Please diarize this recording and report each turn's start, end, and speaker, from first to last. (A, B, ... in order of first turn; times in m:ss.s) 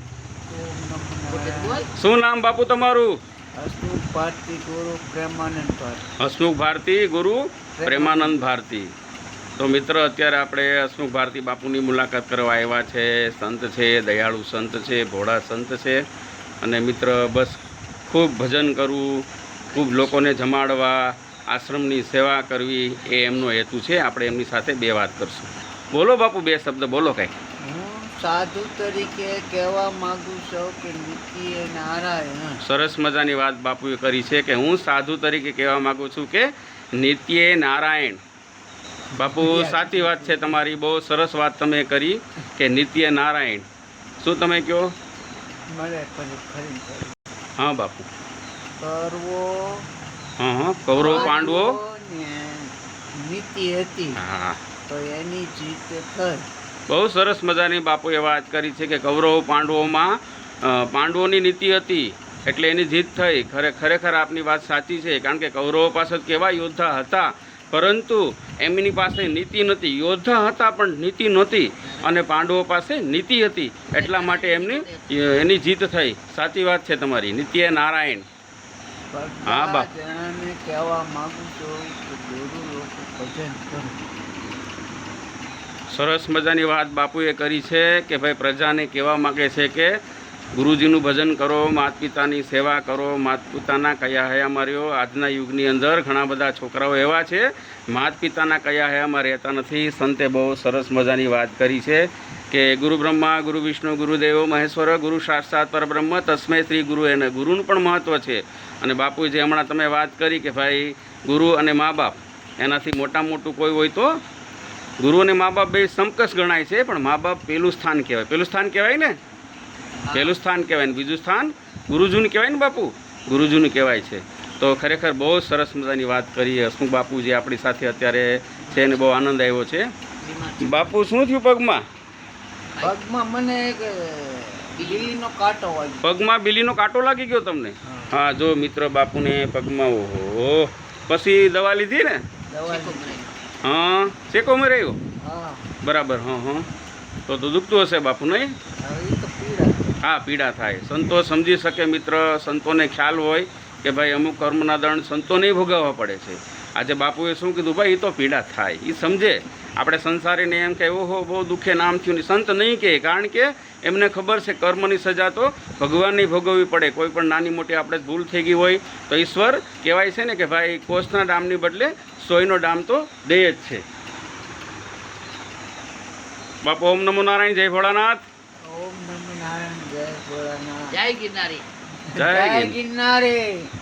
0:00.5-0:01.9 A
0:01.3-0:01.9 B
0:01.9-0:03.2 C
0:03.6-0:06.0 A
0:06.2-0:08.9 C
0:07.8-0:08.4 A
0:09.6-0:16.0 C
0:16.6-0:27.3 C
0:27.6-0:32.6 A
0:32.6-0:38.2 C
0:39.2-0:43.7 C
0:39.2-0:40.6 A
0:44.2-0:45.0 C
0:45.7-0:47.2 A
0:47.6-0:48.1 C
0:48.8-0:49.9 A
0:50.4-0:51.8 C
0:50.9-0:54.2 A
0:54.2-0:54.6 C
0:54.9-0:56.5 A
0:56.9-1:18.2 C
1:11.9-1:12.1 B
1:13.9-1:15.1 B
1:19.1-1:24.0 A
1:19.4-1:19.9 C
1:25.9-1:29.9 C
1:30.6-1:54.1 C
1:55.0-1:59.2 C
2:00.1-2:09.9 C
2:10.2-2:10.9 B
2:10.6-2:11.8 C
2:12.8-2:16.2 A
2:14.8-2:15.1 B
2:16.0-2:22.3 C
2:17.9-2:18.2 A
2:22.5-2:23.3 A
2:22.7-2:23.3 B
2:23.6-2:25.0 C
2:25.2-2:25.7 A
2:25.8-2:26.7 C
2:27.3-2:28.6 C
2:28.8-2:30.0 A
2:30.0-2:53.8 C
2:56.6-2:58.2 C
2:58.7-3:01.0 A
3:00.9-3:01.6 B
3:02.1-3:03.7 A
3:02.2-3:02.8 C